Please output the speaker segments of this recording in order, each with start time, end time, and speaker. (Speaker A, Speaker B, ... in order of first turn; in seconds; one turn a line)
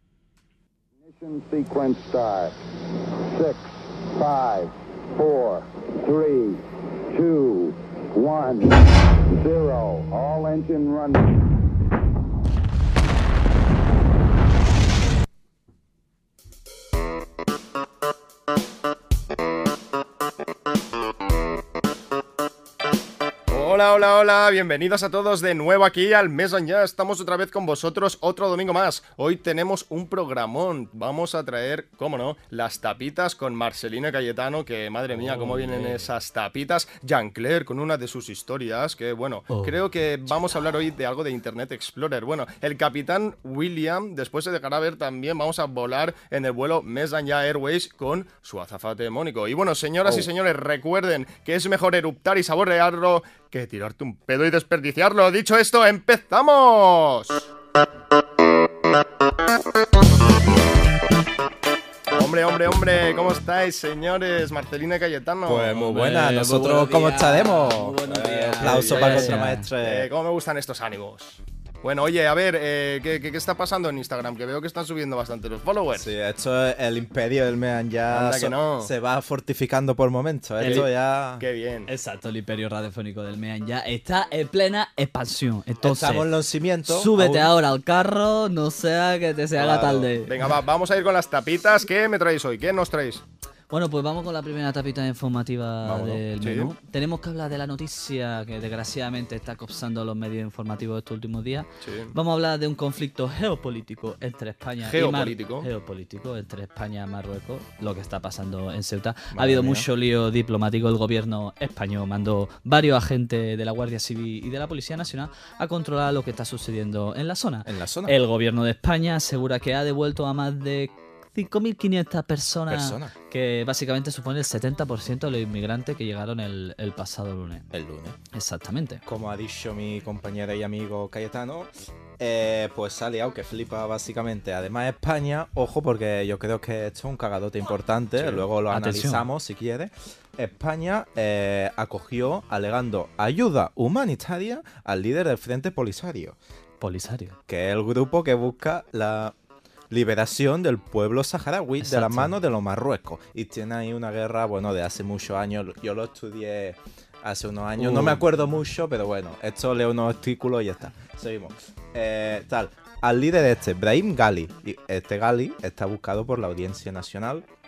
Speaker A: 1.0-2.6
Speaker A: 3.2-11.3
Speaker B: 23.5-57.5
Speaker C: 35.1-36.1
Speaker C: 39.5-40.3
Speaker B: 62.1-65.8
Speaker D: 65.4-70.1
Speaker C: 65.7-69.7
Speaker B: 68.5-76.1
Speaker D: 75.9-81.4
Speaker B: 78.1-78.9
Speaker B: 80.6-80.9
Speaker B: 81.4-81.9
Speaker C: 81.9-86.3
Speaker D: 85.8-87.5
Speaker C: 86.8-90.4
Speaker D: 89.6-90.1
Speaker B: 90.2-93.2
Speaker C: 93.7-127.7
Speaker D: 95.8-96.2
Speaker B: 96.4-96.7
Speaker B: 101.8-102.1
Speaker B: 104.8-105.7
Speaker D: 109.3-109.9
Speaker D: 117.6-118.2
Speaker D: 122.7-123.1
Speaker D: 127.7-128.2
Speaker C: 128.3-129.0
Speaker D: 129.0-146.4
Speaker C: 138.7-139.2
Speaker C: 146.8-147.3
Speaker D: 147.5-149.3
Speaker D: 149.9-167.4
Speaker C: 151.8-152.3